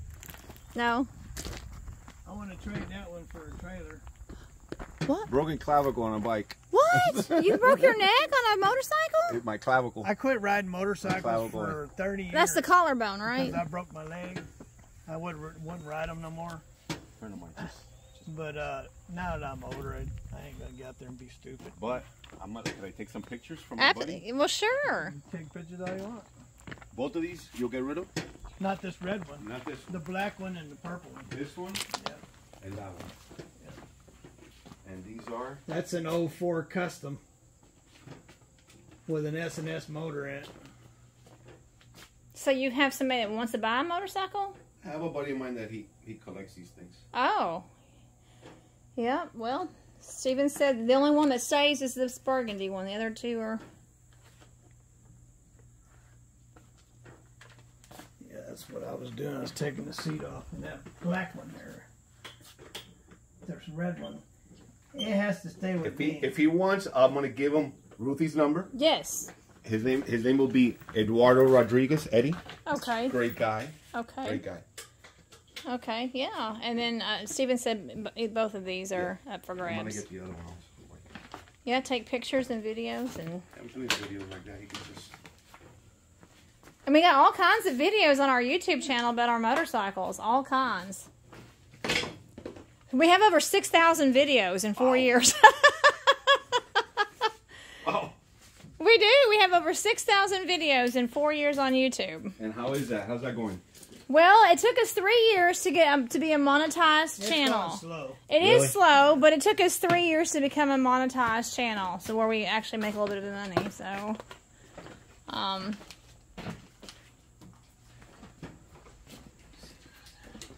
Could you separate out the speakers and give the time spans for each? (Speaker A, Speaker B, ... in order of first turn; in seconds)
Speaker A: 0.7-1.1, 6.7-9.4, 12.3-13.6, 23.8-25.1, 42.3-44.5, 47.1-47.7, 49.0-53.6, 68.7-69.3, 72.7-73.2, 73.9-74.4, 75.7-80.0, 81.6-83.4, 86.8-91.1, 92.9-96.6, 98.8-102.3, 104.1-114.2, 115.3-115.8
Speaker B: 2.2-4.0, 10.0-12.7, 13.2-14.5, 15.1-16.6, 18.2-22.0, 24.8-26.3, 28.6-31.3, 31.9-32.2, 35.6-37.2, 39.1-40.5, 58.2-61.9, 63.4-64.2, 64.9-66.3, 107.2-108.2
Speaker C: 5.3-8.0, 9.3-10.1, 11.0-11.8, 17.2-18.2, 21.8-24.2, 26.9-28.1, 29.4-29.9, 31.2-31.8, 32.6-33.1, 34.8-35.6, 44.8-47.0, 65.8-68.7, 69.6-72.4, 73.0-74.6, 78.9-81.0, 83.5-85.1, 94.8-95.1, 97.8-98.1, 102.4-103.6, 108.4-108.8